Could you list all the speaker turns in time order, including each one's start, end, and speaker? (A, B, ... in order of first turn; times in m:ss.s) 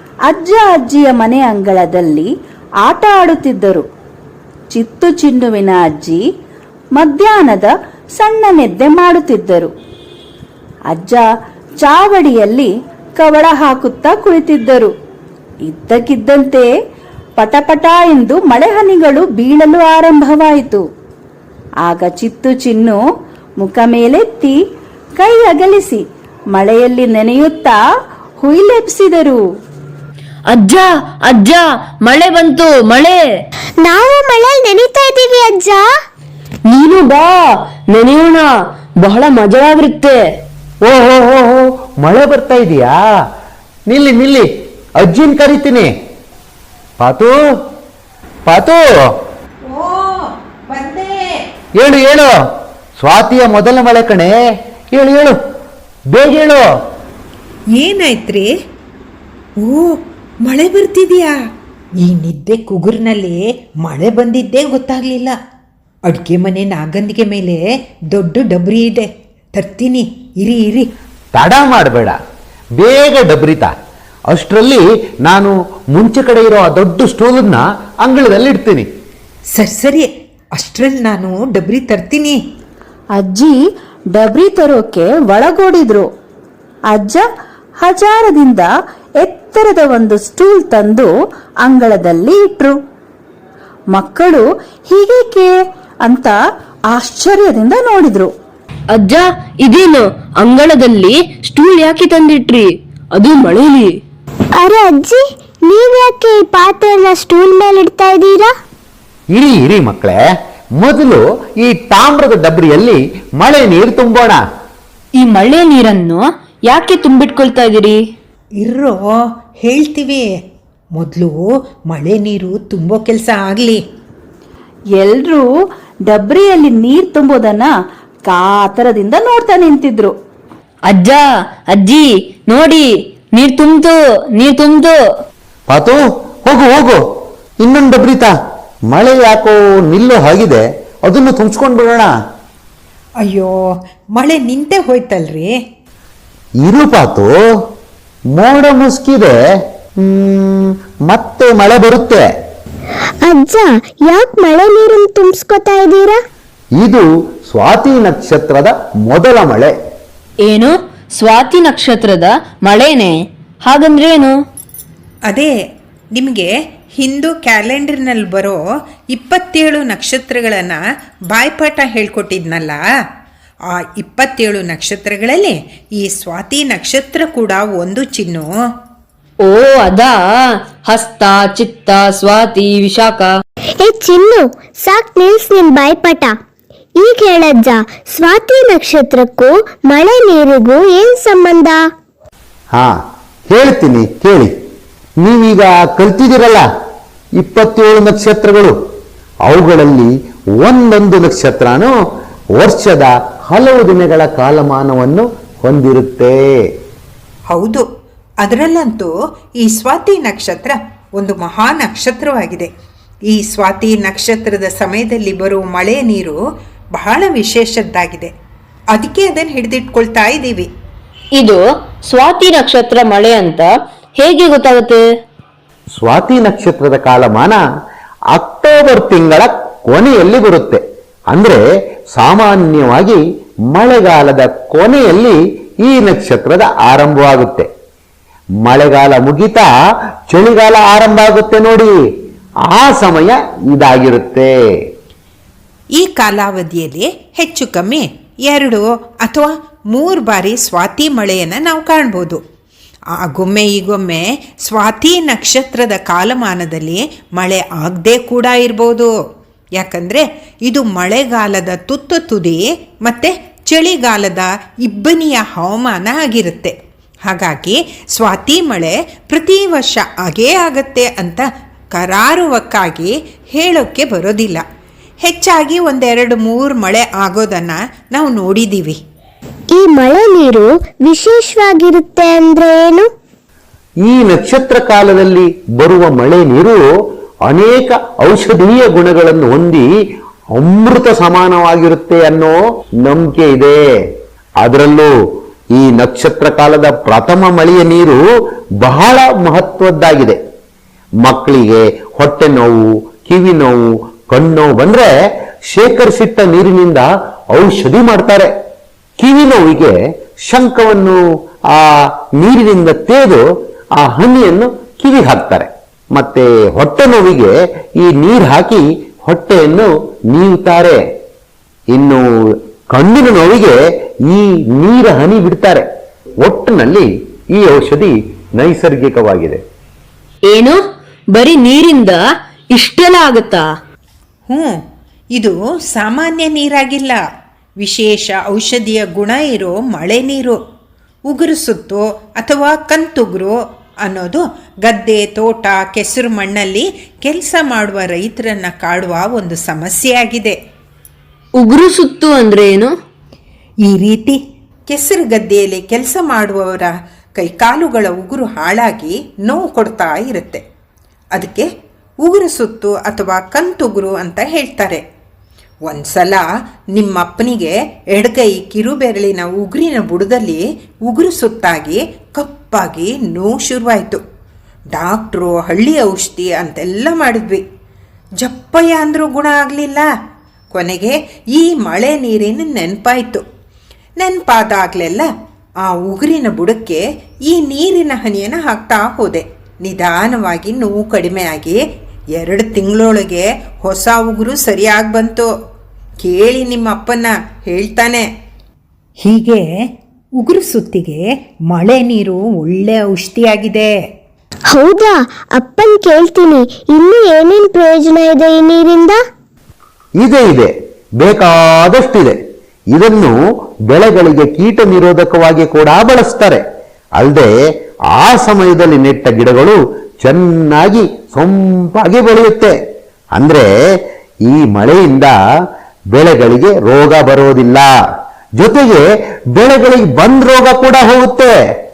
0:00.3-0:02.3 A
0:02.8-0:03.8 A
0:04.7-0:06.2 A
0:07.0-0:09.7 A
0:10.9-0:11.2 A
0:11.8-0:14.9 A
0:15.6-0:16.7 A
0:17.4-0:20.8 A
0:21.8-0:23.0 A
0:23.6-0:24.6 A
0:25.2-0:27.8 A
0:28.4-0:29.4 A
0:30.5-0:33.2 B
0:33.8-0:35.9 C
0:36.7-0:40.2 B
0:40.8-0:42.9 D
0:43.9-0:44.5 D
0:45.0-0:45.9 D
0:47.0-0:47.4 D
0:48.4-0:48.9 D
0:49.6-0:51.2 E
0:51.8-0:52.4 D
0:53.0-0:54.3 D
0:54.9-0:55.4 D
0:56.1-0:56.6 D
0:57.7-0:58.5 E
0:59.6-1:01.3 E
1:02.0-1:05.3 E
1:06.1-1:10.9 E
1:11.4-1:12.2 D
1:12.8-1:13.7 D
1:14.3-1:18.9 D
1:19.5-1:22.4 E
1:23.2-1:23.6 A
1:24.1-1:26.1 A
1:26.9-1:27.2 A
1:27.8-1:28.7 A
1:29.2-1:31.1 A
1:31.6-1:32.8 A
1:33.9-1:36.3 A
1:36.9-1:38.3 A
1:38.9-1:43.9 B
1:44.6-1:48.5 C
1:49.3-1:50.2 D
1:50.8-1:54.4 D
1:55.2-1:58.0 B
1:58.6-2:00.3 E
2:01.0-2:03.8 E
2:05.0-2:05.5 A
2:06.1-2:07.7 A
2:08.3-2:10.1 A
2:10.9-2:14.9 B
2:15.7-2:17.0 D
2:17.6-2:18.3 D
2:18.9-2:22.1 D
2:23.2-2:23.6 E
2:24.1-2:25.5 E
2:26.6-2:27.4 D
2:28.4-2:29.3 D
2:30.0-2:32.2 D
2:33.2-2:36.2 C
2:36.8-2:39.7 D
2:40.4-2:43.1 B
2:43.6-2:44.3 B
2:46.1-2:48.6 E
2:49.1-2:52.8 E
2:53.7-2:58.5 E
2:59.4-3:00.2 B
3:00.9-3:03.3 B
3:03.8-3:06.4 C
3:07.0-3:11.8 C
3:13.5-3:14.5 D
3:15.2-3:16.6 D
3:17.4-3:18.7 D
3:19.5-3:21.9 D
3:22.6-3:26.4 D
3:27.5-3:27.8 E
3:28.4-3:32.7 E
3:33.3-3:36.4 E
3:36.9-3:38.3 E
3:38.9-3:40.7 E
3:41.4-3:45.0 B
3:46.0-3:47.6 D
3:48.3-3:51.6 D
3:52.1-3:53.2 D
3:53.7-3:57.7 D
3:58.6-3:59.7 D
4:00.3-4:01.9 D
4:02.7-4:04.5 D
4:06.0-4:12.4 E
4:13.2-4:19.1 E
4:19.8-4:26.7 E
4:27.2-4:34.6 E
4:35.2-4:39.0 E
4:39.7-4:43.1 C
4:44.0-4:46.8 D
4:47.5-4:49.8 D
4:50.5-4:53.8 D
4:54.6-4:55.1 D
4:55.7-4:58.2 D
4:58.8-5:00.4 D
5:01.2-5:05.1 D
5:05.7-5:08.5 D
5:09.2-5:09.9 D
5:10.4-5:13.4 D
5:14.0-5:21.0 D
5:21.9-5:23.8 D
5:24.3-5:25.8 D
5:26.4-5:29.6 D
5:30.5-5:30.8 B
5:31.3-5:32.2 B
5:32.7-5:33.6 B
5:34.5-5:34.7 E
5:35.3-5:37.2 E
5:37.8-5:40.6 E
5:41.3-5:50.6 E
5:51.6-5:52.9 B
5:53.9-5:54.4 E
5:54.9-6:00.6 E
6:01.3-6:01.7 E
6:02.2-6:05.0 E
6:05.9-6:14.2 E
6:14.9-6:17.6 E
6:18.4-6:20.1 E
6:20.7-6:23.4 E
6:24.2-6:25.3 E
6:25.8-6:31.8 E
6:32.4-6:35.5 E
6:36.2-6:38.2 E
6:39.2-6:39.7 E
6:40.4-6:43.9 E
6:44.7-6:49.2 C
6:50.2-6:52.4 D
6:52.9-6:53.4 D
6:53.9-6:56.6 D
6:57.2-6:57.5 D
6:58.1-7:02.7 D
7:03.3-7:03.7 D
7:04.5-7:05.4 D
7:06.1-7:07.9 D
7:08.6-7:09.0 D
7:09.6-7:11.5 D